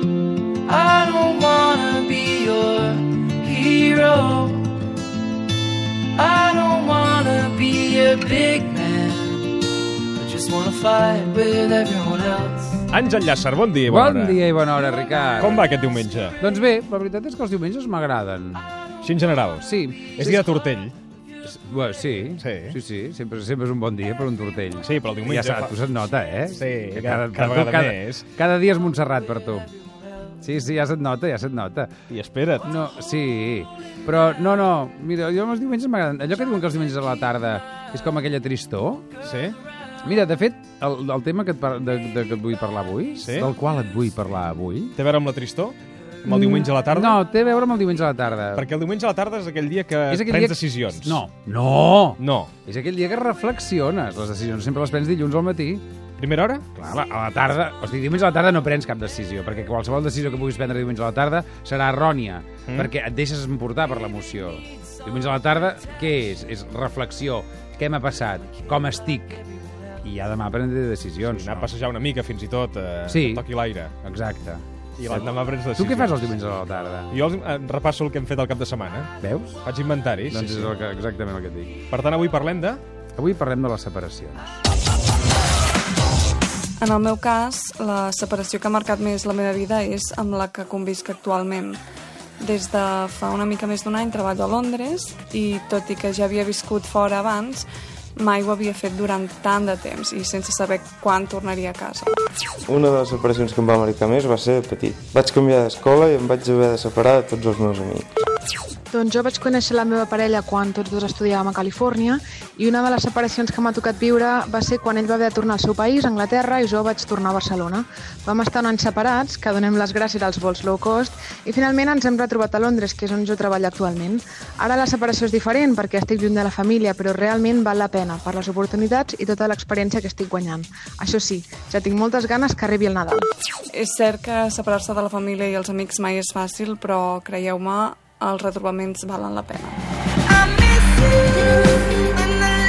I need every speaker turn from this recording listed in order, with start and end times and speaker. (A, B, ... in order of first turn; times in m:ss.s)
0:00.6-0:04.8 A
0:06.1-0:09.6 A
0:10.2-0:12.8 A
0:12.9-0:14.4 B
0:13.8-0:15.8 C
0:15.4-0:16.4 B
0:16.4-0:18.7 C
0:19.0-0:20.9 B
0:19.6-0:20.5 C
0:21.4-0:29.7 C
0:22.4-0:22.8 B
0:24.8-0:25.8 B
0:26.6-0:28.3 B
0:30.4-0:31.9 C
0:32.1-0:32.7 B
0:32.6-0:39.1 C
0:39.2-0:39.5 B
0:40.0-0:44.9 C
0:43.2-0:43.5 B
0:45.0-0:47.2 B
0:46.2-0:48.7 C
0:48.6-0:51.2 B
0:50.1-0:55.8 C
0:52.2-0:52.5 B
0:56.2-0:56.6 B
0:56.7-1:09.4 C
1:10.0-1:11.7 C
1:11.2-1:13.9 B
1:13.1-1:17.2 C
1:15.0-1:16.3 B
1:17.1-1:19.1 B
1:19.2-1:19.6 C
1:19.6-1:20.7 B
1:20.3-1:21.8 C
1:21.9-1:22.8 B
1:23.1-1:24.6 C
1:26.8-1:31.8 D
1:32.4-1:42.1 D
1:42.6-1:48.1 E
1:48.9-2:13.3 F
2:13.7-2:19.8 D